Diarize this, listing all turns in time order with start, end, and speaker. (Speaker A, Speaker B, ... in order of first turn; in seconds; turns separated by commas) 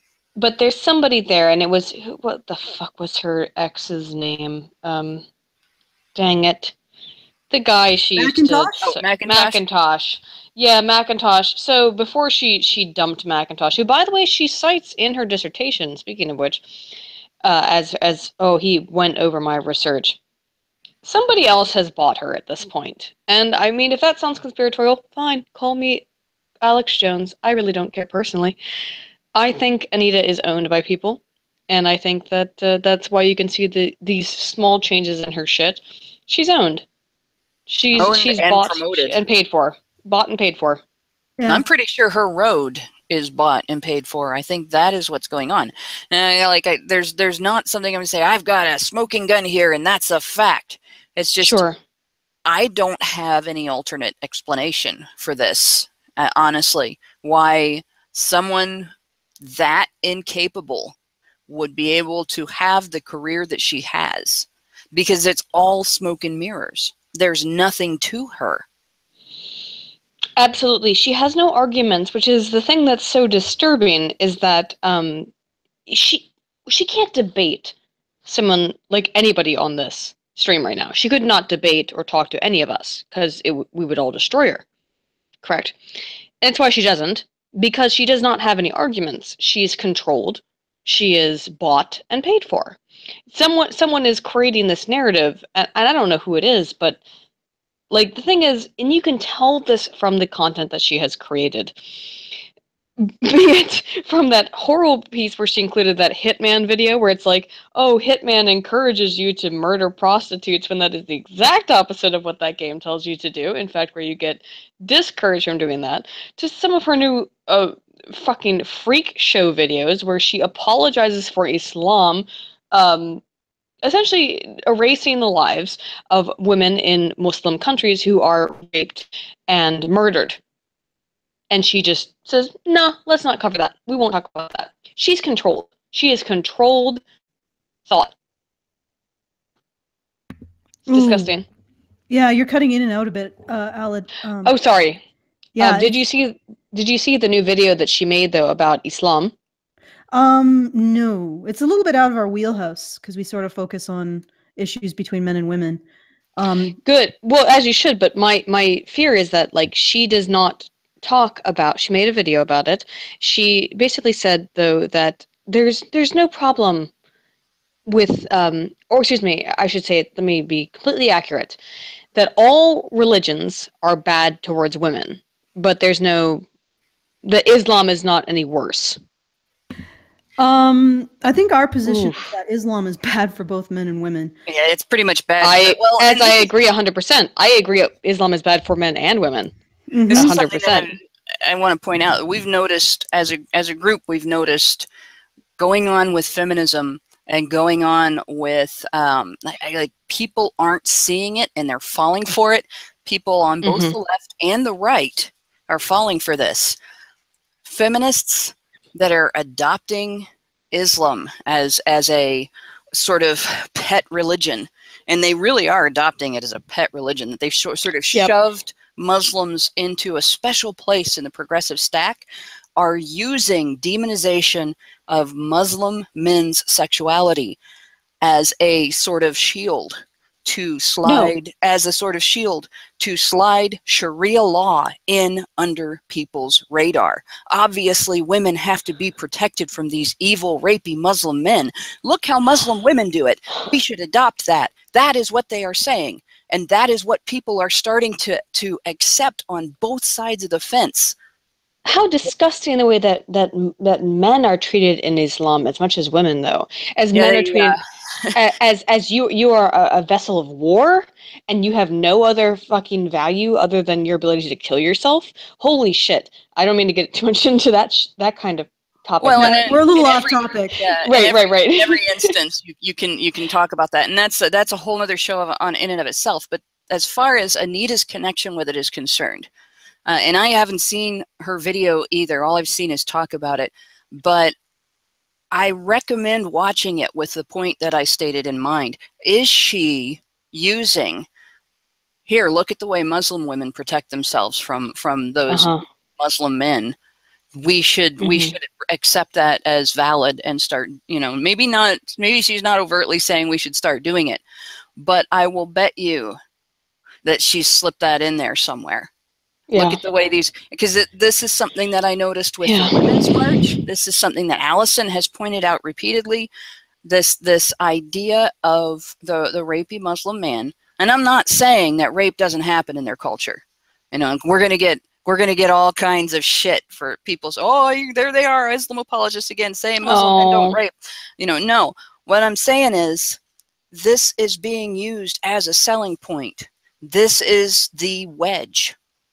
Speaker A: 0.4-5.2, Speaker A: 6.2-6.7, Speaker A: 7.5-16.8, Speaker B: 8.2-8.9, Speaker C: 8.8-9.6, Speaker A: 17.4-20.2, Speaker A: 21.0-26.0, Speaker A: 26.6-28.6, Speaker A: 29.4-36.8, Speaker A: 37.7-40.8, Speaker C: 38.0-39.2, Speaker B: 41.4-41.6, Speaker C: 41.5-51.6, Speaker A: 51.5-51.8, Speaker C: 52.5-61.0, Speaker C: 61.5-68.7, Speaker A: 70.4-75.3, Speaker A: 75.9-77.7, Speaker A: 78.3-84.6, Speaker A: 85.4-85.8, Speaker A: 86.4-92.8, Speaker A: 93.3-97.0, Speaker A: 97.9-101.8, Speaker A: 103.0-123.2, Speaker A: 123.8-130.4, Speaker A: 131.5-137.0, Speaker B: 140.9-141.3, Speaker A: 140.9-141.5, Speaker B: 142.1-144.6, Speaker A: 144.4-145.0, Speaker B: 145.6-145.9, Speaker A: 145.6-149.3, Speaker B: 150.1-155.8, Speaker B: 156.4-156.8, Speaker A: 156.8-166.9, Speaker A: 167.9-171.6, Speaker A: 172.2-176.4, Speaker A: 177.2-179.0, Speaker B: 180.4-184.3, Speaker A: 181.9-182.2, Speaker C: 184.5-186.5, Speaker A: 185.4-189.5, Speaker B: 189.9-190.4, Speaker C: 190.1-194.9, Speaker A: 190.1-190.9, Speaker C: 195.6-206.8, Speaker A: 203.6-203.9, Speaker C: 207.7-222.2, Speaker C: 222.8-227.6, Speaker C: 228.2-251.2, Speaker A: 231.0-231.3, Speaker A: 251.8-257.8, Speaker C: 257.1-258.4, Speaker A: 258.3-269.9, Speaker C: 269.2-279.5, Speaker B: 269.4-270.8, Speaker A: 271.0-272.3, Speaker C: 280.1-284.5, Speaker C: 285.5-291.3, Speaker C: 292.3-296.9, Speaker A: 295.5-295.8, Speaker C: 297.5-304.4, Speaker A: 298.2-298.5, Speaker C: 305.0-306.4, Speaker C: 307.2-309.1, Speaker A: 309.7-310.0, Speaker C: 309.8-316.5, Speaker A: 312.6-313.4, Speaker C: 317.1-333.4, Speaker A: 330.0-330.8, Speaker C: 333.9-338.9